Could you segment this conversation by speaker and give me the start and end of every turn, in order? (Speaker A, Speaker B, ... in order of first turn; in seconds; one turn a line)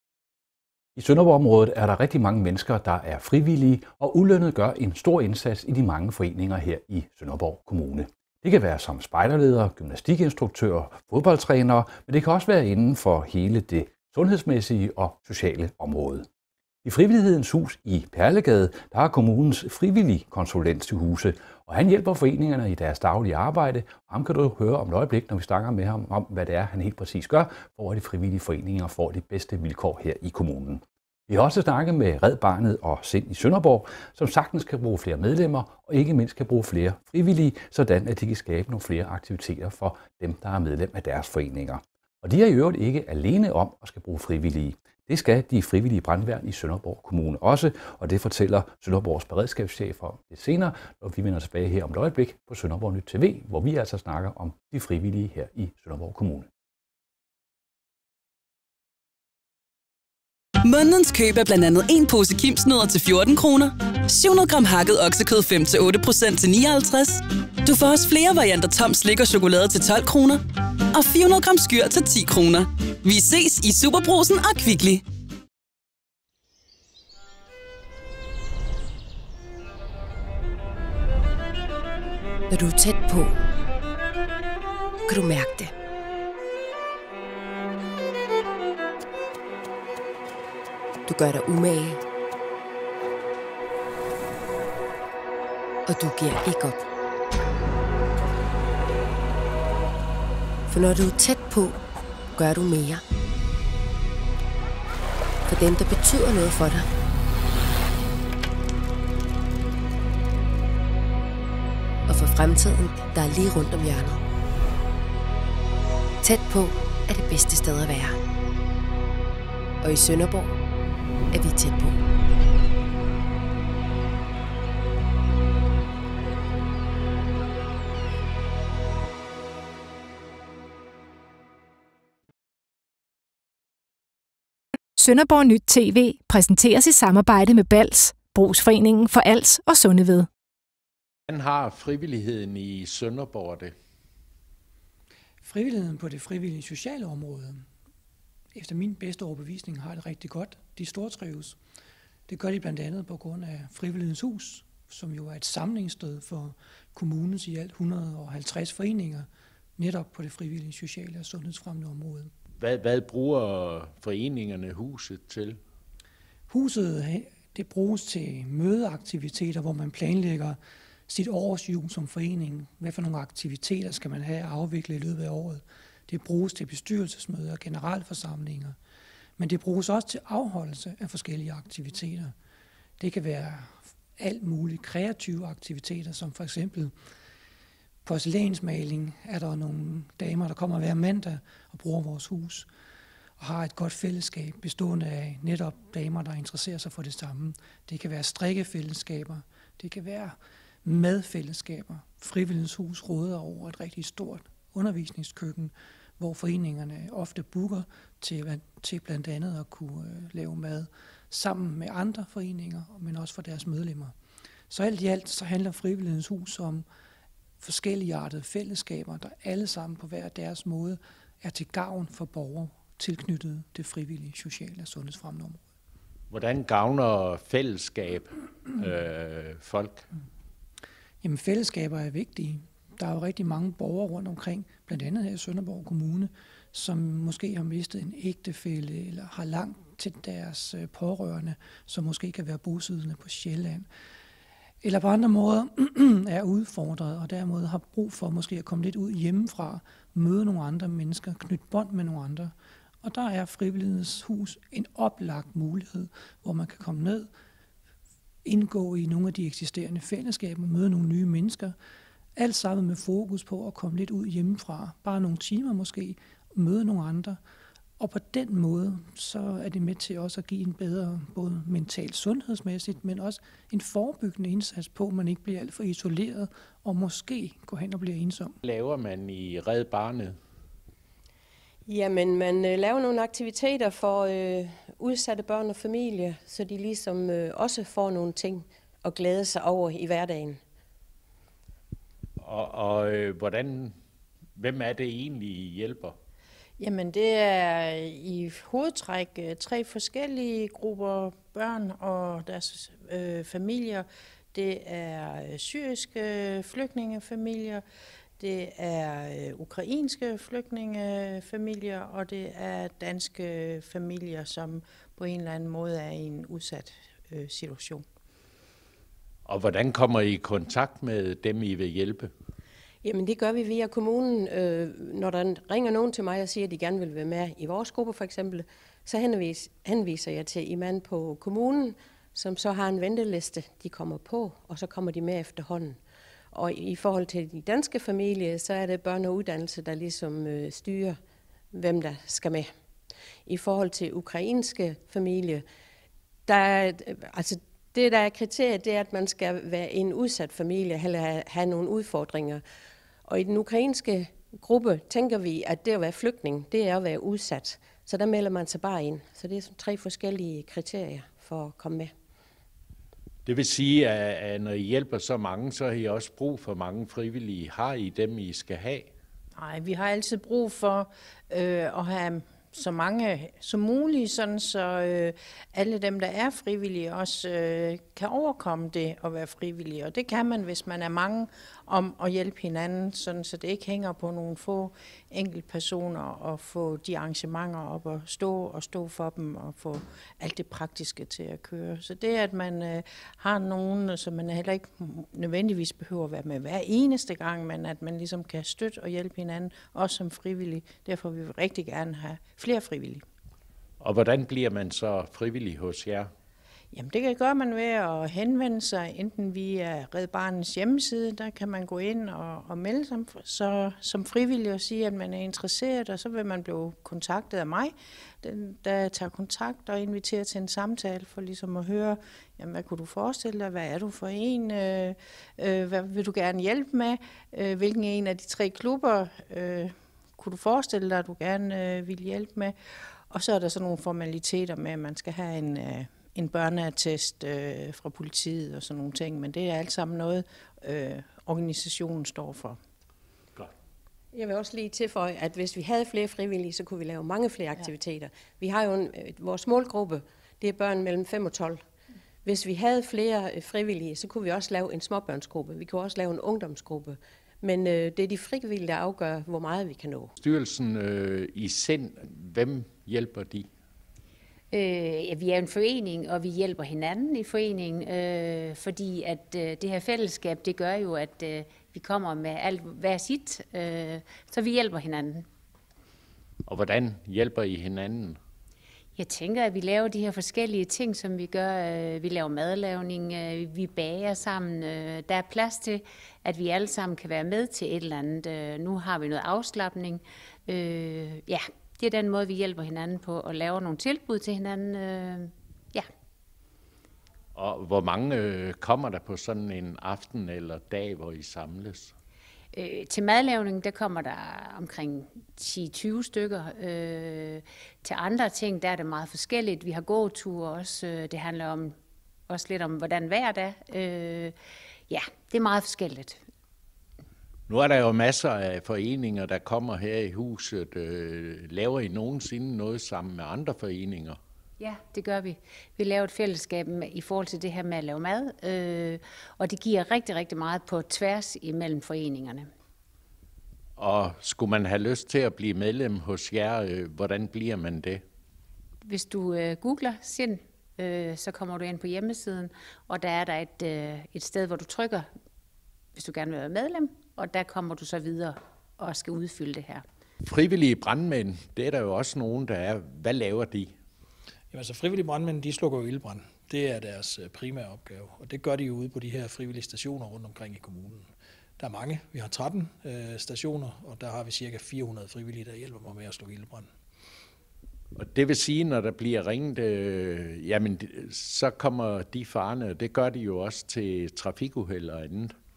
Speaker A: 1.0-16.3
Speaker A: 16.8-56.5
Speaker B: 60.7-70.4
Speaker B: 70.9-75.0
Speaker C: 82.5-83.3
Speaker D: 82.7-83.1
Speaker C: 85.1-85.7
Speaker C: 91.1-92.0
Speaker C: 95.9-96.8
Speaker C: 100.7-101.8
Speaker C: 102.4-103.0
Speaker C: 105.5-106.9
Speaker C: 112.1-114.2
Speaker C: 116.2-118.2
Speaker C: 119.8-120.5
Speaker C: 121.3-121.9
Speaker E: 135.0-140.3
Speaker F: 141.3-143.7
Speaker G: 145.4-147.7
Speaker G: 148.5-151.6
Speaker G: 152.3-162.3
Speaker F: 162.6-165.6
Speaker G: 166.5-178.8
Speaker G: 179.4-182.3
Speaker G: 183.0-186.9
Speaker G: 188.1-192.7
Speaker G: 193.4-214.1
Speaker G: 214.7-216.9
Speaker G: 217.6-225.6
Speaker F: 226.3-230.1
Speaker G: 231.2-243.9
Speaker G: 244.8-257.3
Speaker G: 258.4-261.8
Speaker G: 262.4-267.4
Speaker G: 268.0-278.6
Speaker F: 278.6-280.4
Speaker D: 281.9-290.6
Speaker F: 292.4-293.9
Speaker F: 294.6-296.2
Speaker H: 296.8-307.8
Speaker H: 308.4-318.0
Speaker F: 319.4-322.3
Speaker D: 323.0-336.0
Speaker D: 336.5-341.2
Speaker D: 341.7-342.7
Speaker D: 343.4-345.6
Speaker D: 346.5-352.6
Speaker D: 353.2-362.1
Speaker F: 363.5-369.1
Speaker H: 369.6-403.2
Speaker F: 404.0-406.3
Speaker H: 406.9-432.7
Speaker H: 433.3-442.8
Speaker D: 444.3-451.8
Speaker D: 452.4-460.3
Speaker F: 460.4-463.7
Speaker I: 464.7-475.4
Speaker F: 476.7-478.4
Speaker I: 479.2-496.1
Speaker F: 497.6-502.1
Speaker I: 502.7-511.9
Speaker I: 512.5-514.5
Speaker I: 515.1-516.4
Speaker F: 517.7-524.4
Speaker I: 524.8-532.7
Speaker F: 534.0-538.2
Speaker I: 539.0-545.3
Speaker I: 546.2-550.0
Speaker F: 550.4-553.9
Speaker J: 554.7-561.2
Speaker J: 561.8-566.9
Speaker F: 568.2-575.5